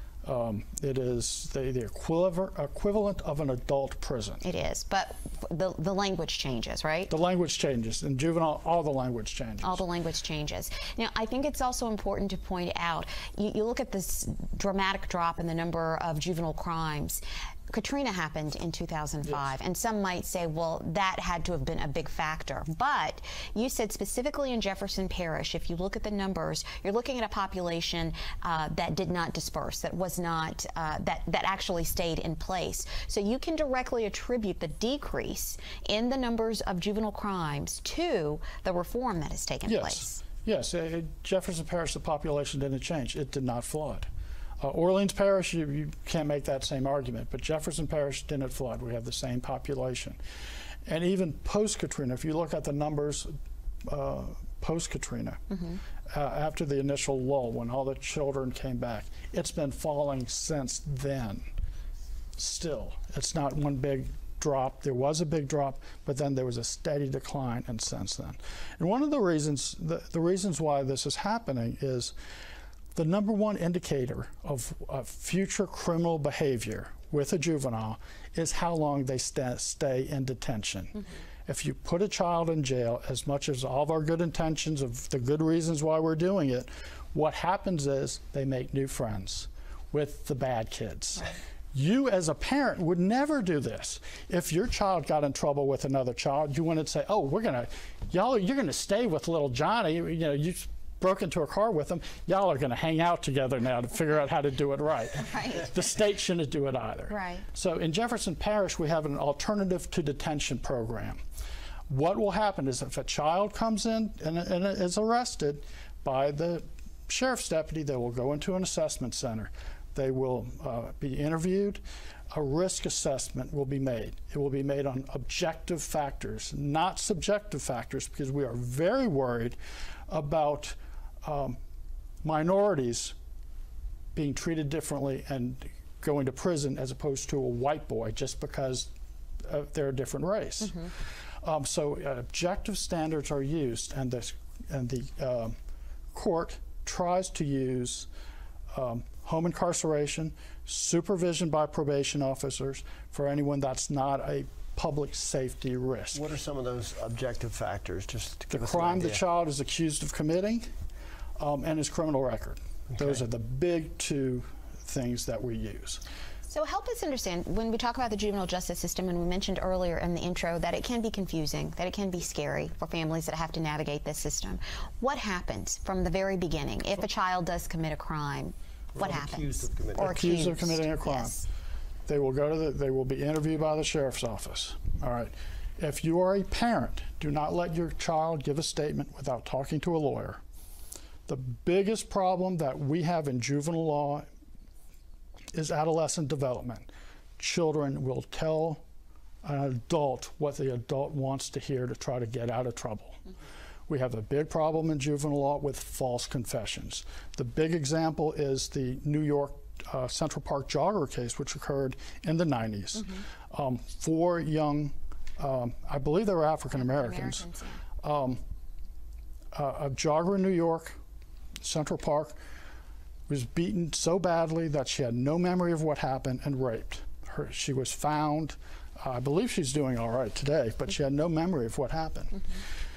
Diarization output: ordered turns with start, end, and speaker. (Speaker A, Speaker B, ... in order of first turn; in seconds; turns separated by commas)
Speaker A: 0.2-4.4, Speaker B: 4.4-7.1, Speaker A: 7.1-9.8, Speaker B: 9.6-40.1, Speaker A: 39.7-44.1, Speaker A: 44.6-50.2, Speaker A: 50.9-53.3, Speaker A: 53.9-55.4, Speaker B: 55.5-55.8, Speaker A: 56.0-61.5, Speaker A: 62.4-72.1, Speaker A: 73.0-111.2, Speaker B: 105.2-105.7, Speaker B: 107.1-107.5, Speaker A: 111.9-121.8, Speaker A: 122.3-129.6, Speaker A: 130.1-131.6, Speaker A: 132.2-133.1, Speaker A: 134.2-138.9, Speaker A: 139.4-145.6, Speaker A: 146.1-148.1, Speaker A: 148.7-156.3, Speaker C: 156.1-159.2, Speaker A: 158.5-160.7, Speaker A: 161.4-166.0, Speaker B: 166.5-181.4, Speaker C: 178.9-180.1, Speaker A: 180.0-181.4, Speaker A: 182.1-190.4, Speaker A: 191.3-194.3, Speaker A: 195.5-198.8, Speaker A: 199.4-203.2, Speaker A: 203.9-217.4, Speaker B: 216.8-217.8, Speaker A: 218.0-218.4, Speaker A: 219.5-221.0, Speaker A: 221.6-222.4, Speaker A: 223.3-232.6